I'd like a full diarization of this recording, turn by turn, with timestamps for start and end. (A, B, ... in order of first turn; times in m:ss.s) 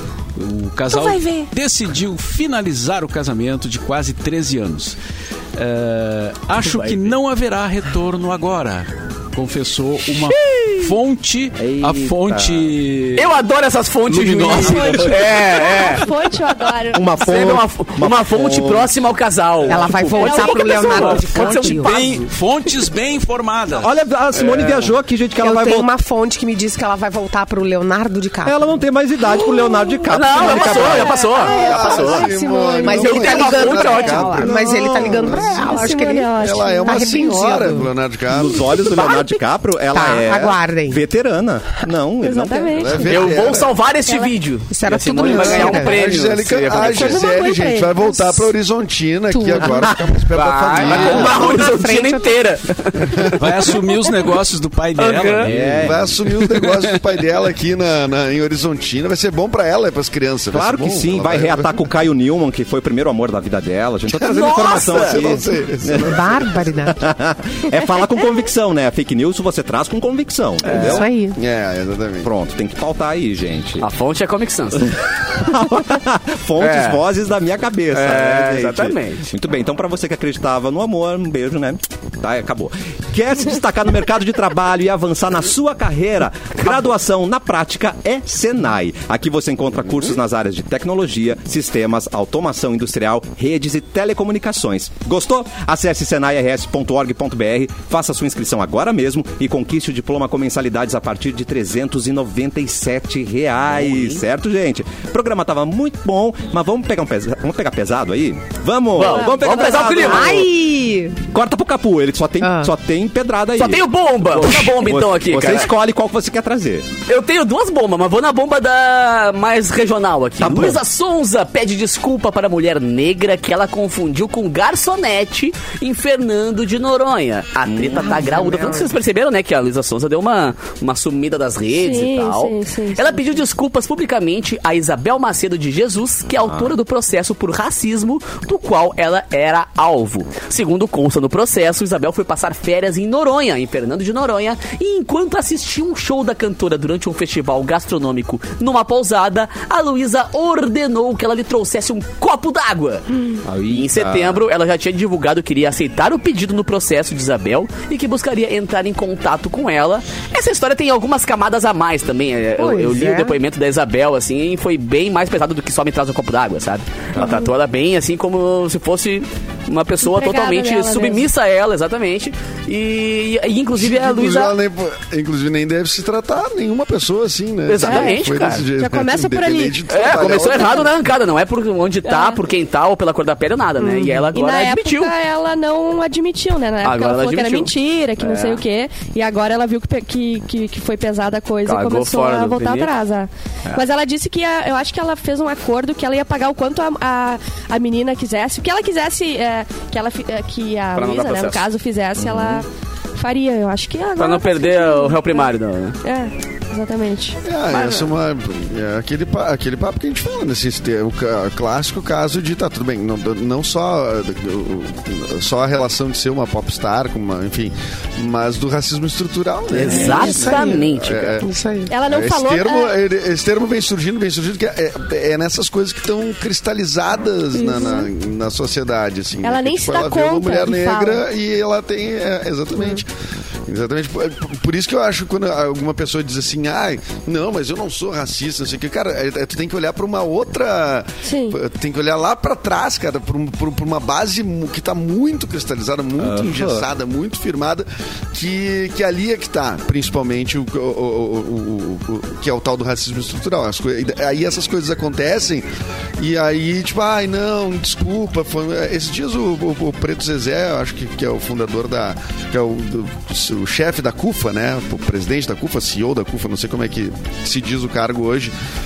0:00.4-0:05.0 A
0:00.9-0:01.5 B
0:05.6-0:13.4 A
0:06.6-0:07.1 C
0:10.1-0:10.9 C
0:11.6-0:12.7 D
0:13.1-0:16.0 C
0:14.1-0:15.9 A
0:14.5-0:17.2 E
0:16.9-0:19.0 D
0:17.2-0:22.3 C
0:19.6-0:22.0 B
0:20.2-0:21.1 E
0:20.8-0:23.9 A
0:23.8-0:25.9 D
0:25.4-0:28.6 B
0:28.4-0:31.3 D
0:30.1-0:32.3 C
0:30.4-0:37.9 B
0:31.3-0:37.1 E
0:31.5-0:35.8 F
0:32.8-0:34.5 C
0:36.4-0:38.7 F
0:38.3-0:42.9 D
0:38.9-0:39.2 B
0:39.9-0:41.0 B
0:42.2-0:43.2 E
0:42.7-0:43.8 F
0:43.1-0:47.2 C
0:44.7-0:46.0 B
0:45.2-0:51.6 F
0:46.8-0:48.5 E
0:49.3-0:49.8 B
0:50.3-0:53.8 C
0:50.9-0:52.3 B
0:53.4-0:56.0 A
0:55.0-0:55.5 C
0:55.4-0:56.1 D
0:55.7-1:01.7 F
1:00.5-1:06.2 D
1:04.2-1:06.6 F
1:04.2-1:05.2 C
1:05.9-1:07.0 B
1:06.9-1:11.1 D
1:10.6-1:11.0 C
1:10.7-1:11.4 B
1:11.4-1:12.3 F
1:12.2-1:13.9 D
1:13.8-1:15.0 C
1:15.2-1:50.5 D
1:16.6-1:17.0 C
1:17.9-1:19.3 C
1:43.8-1:44.2 C
1:48.9-1:50.4 C
1:49.9-1:51.2 B
1:51.3-1:56.9 D
1:52.4-1:52.7 B
1:53.6-1:55.7 C
1:57.1-2:54.6 C
2:00.4-2:00.8 D
2:07.6-2:08.9 D
2:11.7-2:13.4 E
2:16.4-2:16.7 D
2:33.4-2:34.4 D
2:42.6-2:43.4 B
2:47.2-2:47.5 E
2:50.0-2:51.3 E
2:53.8-3:00.9 F
2:57.7-2:58.6 C
2:57.8-2:58.2 E
2:58.8-2:59.8 E
2:59.9-3:05.1 C
3:02.1-3:02.4 E
3:03.8-3:25.5 E
3:06.8-3:08.6 C
3:11.6-3:12.9 C
3:21.0-3:21.6 C
3:22.2-3:22.6 D
3:24.2-3:26.0 C
3:26.0-3:27.4 E
3:27.4-3:41.5 F
3:27.7-3:28.1 C
3:39.7-3:41.4 C
3:39.9-3:40.9 B
3:40.0-3:40.7 E
3:41.4-3:41.9 B
3:41.9-3:42.9 E
3:42.0-3:53.1 F
3:47.5-3:48.1 E
3:49.4-3:51.2 E
3:53.6-4:15.7 F
4:01.2-4:01.6 E
4:06.2-4:06.9 D
4:16.2-4:28.5 F